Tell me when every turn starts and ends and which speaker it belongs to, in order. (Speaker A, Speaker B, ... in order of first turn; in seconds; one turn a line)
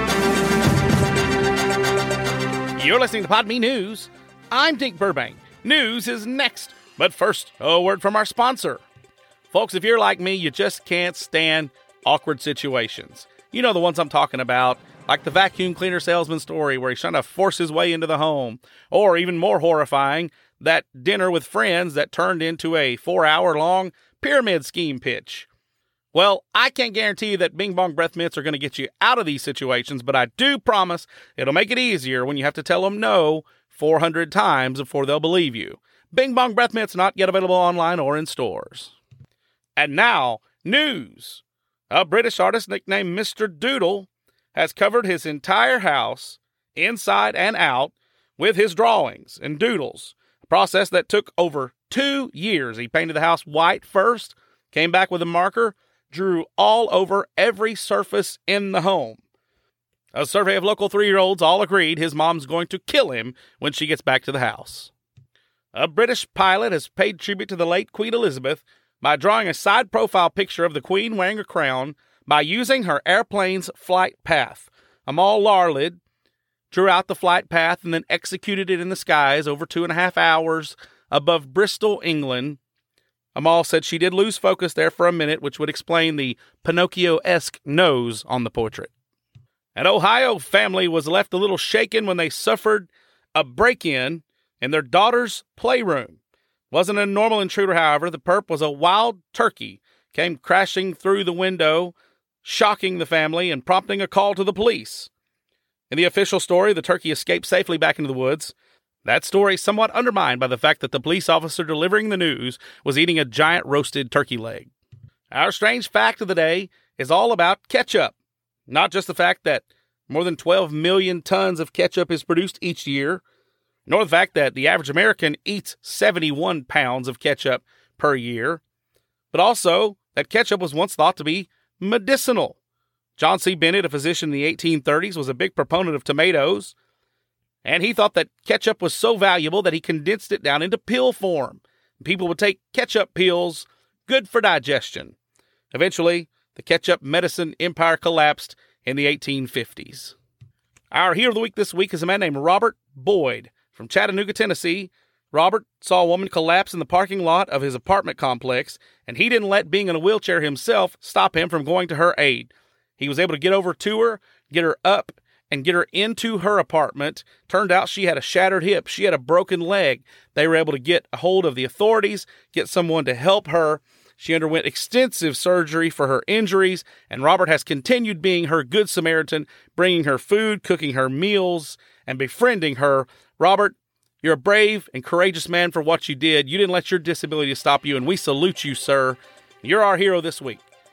Speaker A: 2.8-8.8
Speaker A: 9.5-25.5
Speaker A: 26.1-38.9
Speaker A: 39.8-59.2
Speaker A: 60.1-64.9
Speaker A: 65.7-76.0
Speaker A: 76.7-82.6
Speaker A: 83.3-88.9
Speaker A: 89.8-96.2
Speaker A: 96.7-105.1
Speaker A: 105.9-108.5
Speaker A: 109.0-114.7
Speaker A: 115.3-118.1
Speaker A: 118.7-123.2
Speaker A: 123.9-128.6
Speaker A: 129.3-132.6
Speaker A: 133.2-136.7
Speaker A: 137.6-145.1
Speaker A: 145.7-150.1
Speaker A: 150.9-190.6